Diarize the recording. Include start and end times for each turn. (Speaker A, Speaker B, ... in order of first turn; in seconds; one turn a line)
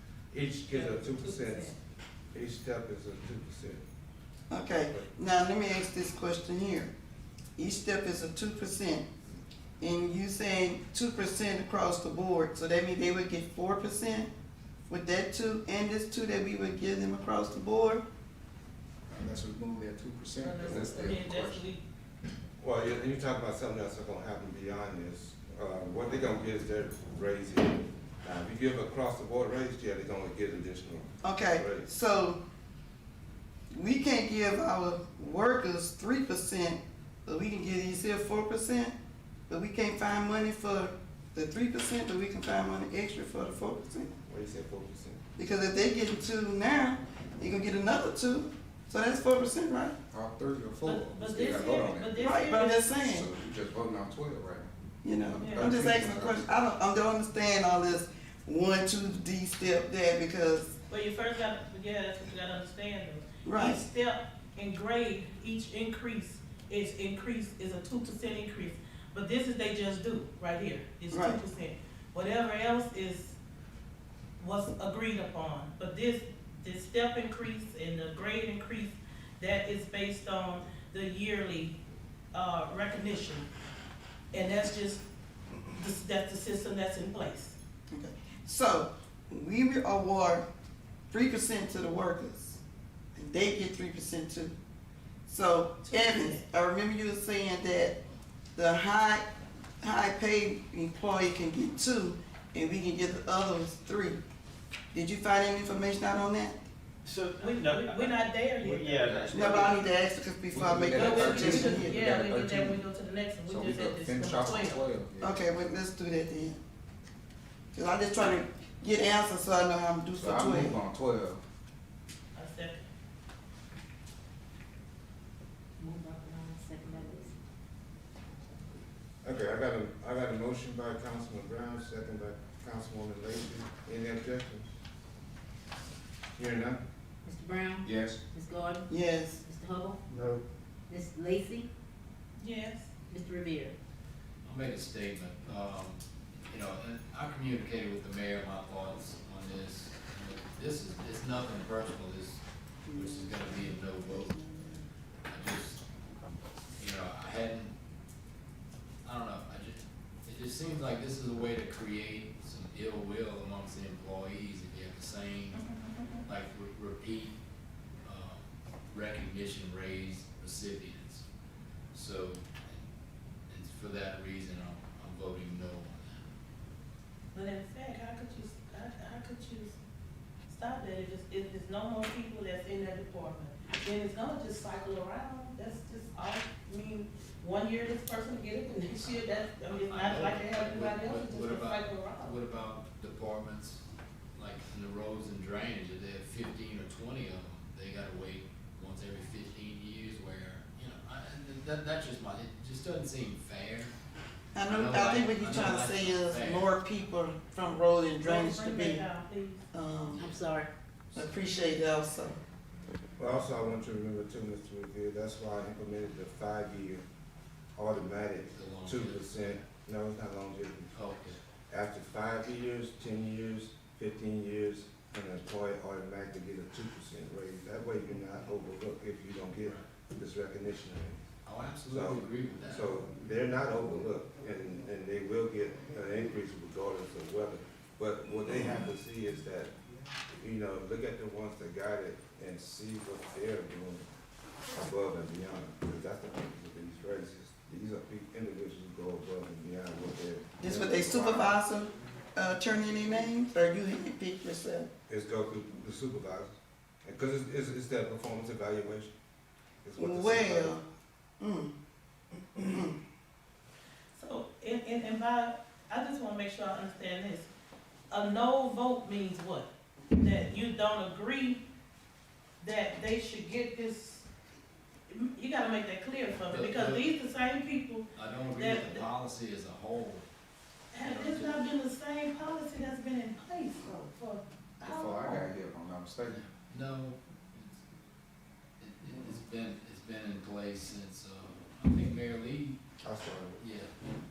Speaker A: 0.3-1.7
Speaker B: 0.7-1.8
Speaker A: 2.3-3.8
Speaker C: 4.5-6.9
Speaker C: 7.6-9.1
Speaker C: 9.8-14.3
Speaker C: 14.9-18.0
Speaker D: 19.1-21.7
Speaker B: 20.4-21.8
Speaker A: 22.6-31.9
Speaker C: 31.2-32.4
Speaker C: 33.7-39.0
Speaker C: 39.5-44.1
Speaker A: 44.3-45.2
Speaker C: 45.4-50.0
Speaker D: 50.1-54.7
Speaker B: 50.9-52.9
Speaker C: 52.2-53.3
Speaker C: 55.0-60.8
Speaker D: 55.2-56.5
Speaker B: 55.4-55.8
Speaker B: 60.9-73.4
Speaker C: 63.5-63.8
Speaker C: 71.1-71.4
Speaker B: 74.4-81.8
Speaker B: 82.3-83.5
Speaker B: 84.3-85.0
Speaker B: 85.7-87.6
Speaker C: 87.9-90.5
Speaker C: 91.1-92.6
Speaker C: 93.2-94.5
Speaker C: 95.3-98.0
Speaker B: 95.8-96.5
Speaker C: 98.6-99.3
Speaker C: 99.8-104.2
Speaker C: 104.9-106.6
Speaker E: 107.1-109.7
Speaker B: 107.4-109.2
Speaker F: 109.0-109.7
Speaker C: 109.3-112.0
Speaker D: 110.5-112.8
Speaker B: 110.9-114.8
Speaker D: 113.5-115.5
Speaker C: 115.2-116.6
Speaker C: 117.7-120.8
Speaker D: 120.1-121.4
Speaker B: 122.3-122.9
Speaker G: 125.8-127.3
Speaker A: 129.2-134.7
Speaker A: 136.4-136.8
Speaker G: 137.2-140.0
Speaker D: 137.8-138.2
Speaker C: 138.9-139.4
Speaker A: 140.1-140.4
Speaker G: 140.9-141.7
Speaker B: 142.4-142.9
Speaker G: 143.1-143.8
Speaker F: 144.4-152.4
Speaker C: 152.9-154.8
Speaker F: 152.9-154.4
Speaker F: 155.3-155.8
Speaker F: 156.8-157.8
Speaker F: 159.0-165.6
Speaker B: 165.5-166.3
Speaker F: 166.3-167.4
Speaker F: 168.0-171.2
Speaker F: 171.9-172.8
Speaker F: 173.5-176.2
Speaker B: 177.3-179.8
Speaker B: 180.5-192.3
Speaker F: 189.7-193.8
Speaker F: 194.3-203.9
Speaker C: 204.6-209.1
Speaker F: 204.7-206.7
Speaker B: 208.2-209.7
Speaker C: 209.7-210.2
Speaker F: 210.2-210.4
Speaker G: 210.2-210.7
Speaker C: 211.1-212.4
Speaker A: 213.2-217.1
Speaker A: 217.8-221.1
Speaker F: 218.5-219.5
Speaker F: 220.9-221.4
Speaker A: 221.7-231.3
Speaker F: 231.4-232.9
Speaker A: 231.8-239.7
Speaker A: 240.3-244.1
Speaker A: 244.7-251.6
Speaker C: 250.6-254.9
Speaker A: 255.1-259.1
Speaker A: 259.8-260.8
Speaker C: 260.0-260.9
Speaker C: 261.4-261.7
Speaker C: 262.6-263.0
Speaker B: 264.1-267.5
Speaker B: 268.1-271.6
Speaker B: 272.6-274.3
Speaker B: 275.1-279.0
Speaker F: 276.5-277.1
Speaker F: 278.1-280.3
Speaker B: 280.9-285.4
Speaker F: 281.0-281.6
Speaker D: 284.8-286.4
Speaker F: 286.3-287.8
Speaker F: 288.8-292.8
Speaker A: 293.0-293.6
Speaker F: 293.6-293.9